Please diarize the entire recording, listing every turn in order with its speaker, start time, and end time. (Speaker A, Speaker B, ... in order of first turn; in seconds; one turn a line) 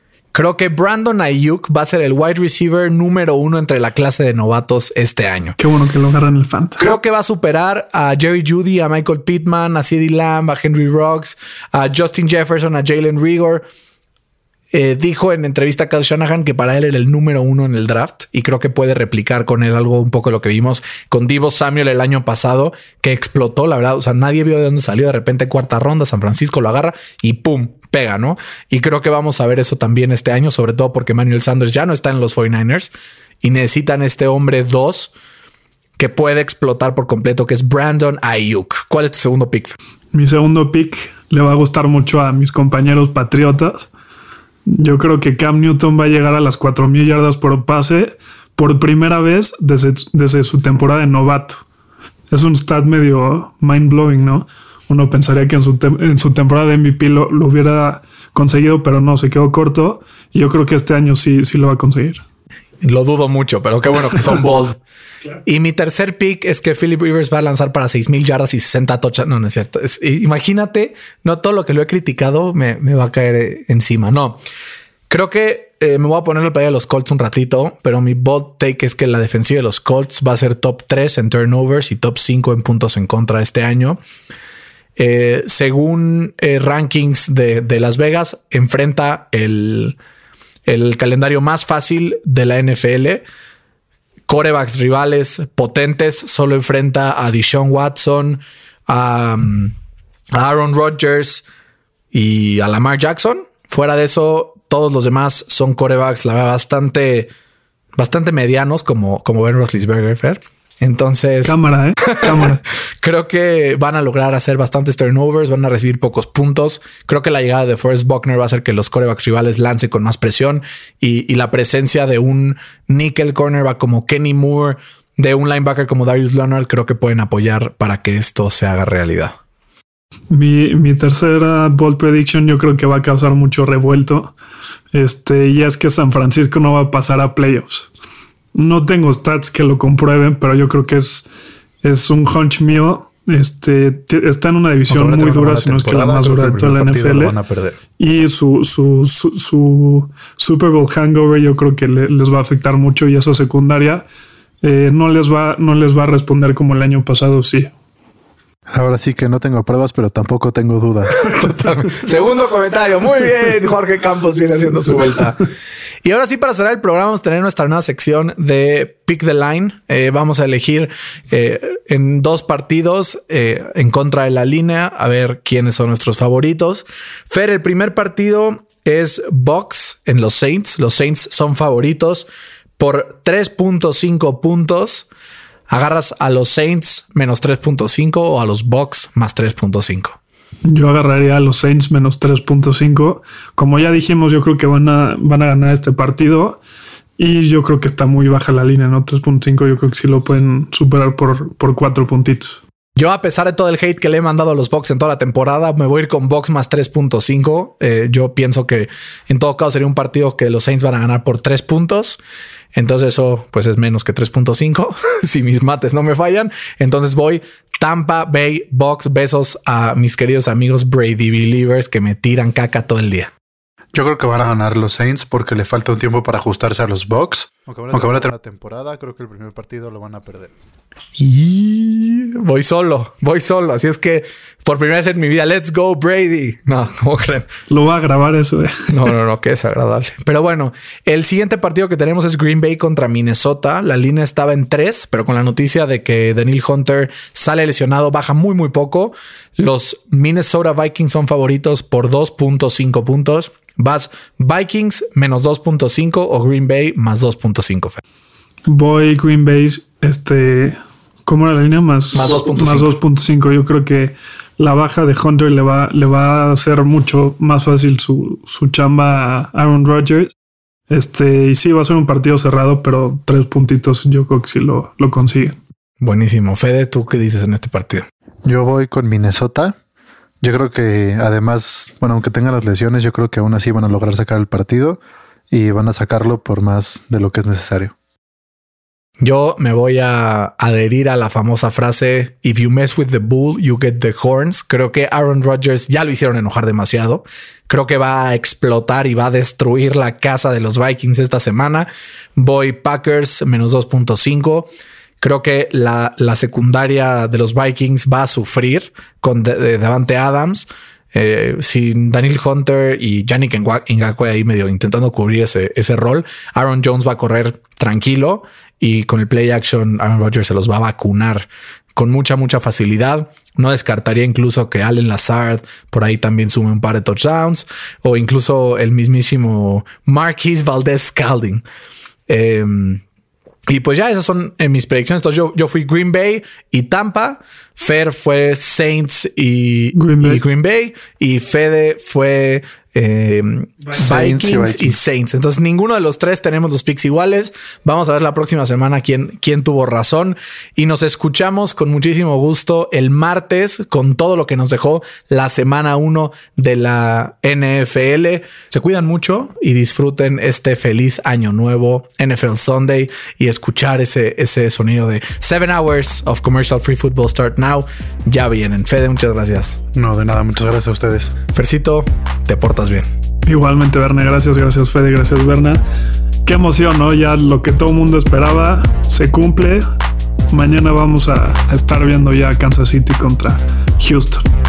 Speaker A: 0.3-5.6
Speaker B: 5.6-6.8
Speaker A: 6.8-13.6
Speaker A: 14.7-32.9
Speaker A: 33.4-35.1
Speaker A: 36.0-39.8
Speaker B: 40.1-43.9
Speaker B: 44.7-51.6
Speaker B: 52.3-62.2
Speaker A: 62.8-64.8
Speaker A: 65.4-74.4
Speaker A: 75.1-84.0
Speaker A: 85.0-90.0
Speaker A: 90.7-93.2
Speaker A: 94.3-99.7
Speaker A: 100.3-101.4
Speaker A: 102.1-107.3
Speaker A: 108.0-129.3
Speaker B: 111.4-112.6
Speaker B: 130.3-134.3
Speaker B: 134.9-137.9
Speaker B: 138.5-141.3
Speaker B: 141.8-147.4
Speaker C: 144.9-147.8
Speaker B: 148.0-154.0
Speaker B: 154.6-157.7
Speaker C: 158.7-161.1
Speaker A: 161.1-165.4
Speaker A: 166.0-185.1
Speaker A: 185.7-190.2
Speaker B: 190.6-196.6
Speaker B: 197.2-202.6
Speaker A: 203.0-212.2
Speaker A: 212.7-223.3
Speaker C: 223.9-230.5
Speaker A: 231.2-237.5
Speaker B: 237.7-239.1
Speaker A: 238.9-258.0
Speaker B: 258.7-270.3
Speaker A: 262.1-262.9
Speaker B: 270.9-275.6
Speaker A: 276.0-278.0
Speaker C: 278.4-279.8
Speaker C: 280.4-285.0
Speaker C: 285.5-287.9
Speaker A: 289.2-304.7
Speaker A: 305.2-331.6
Speaker A: 332.3-333.0
Speaker A: 333.7-369.8
Speaker B: 339.9-340.4
Speaker C: 343.9-345.0
Speaker C: 369.9-371.3
Speaker A: 371.5-373.1
Speaker B: 373.4-375.8
Speaker B: 376.4-379.8
Speaker B: 380.5-384.4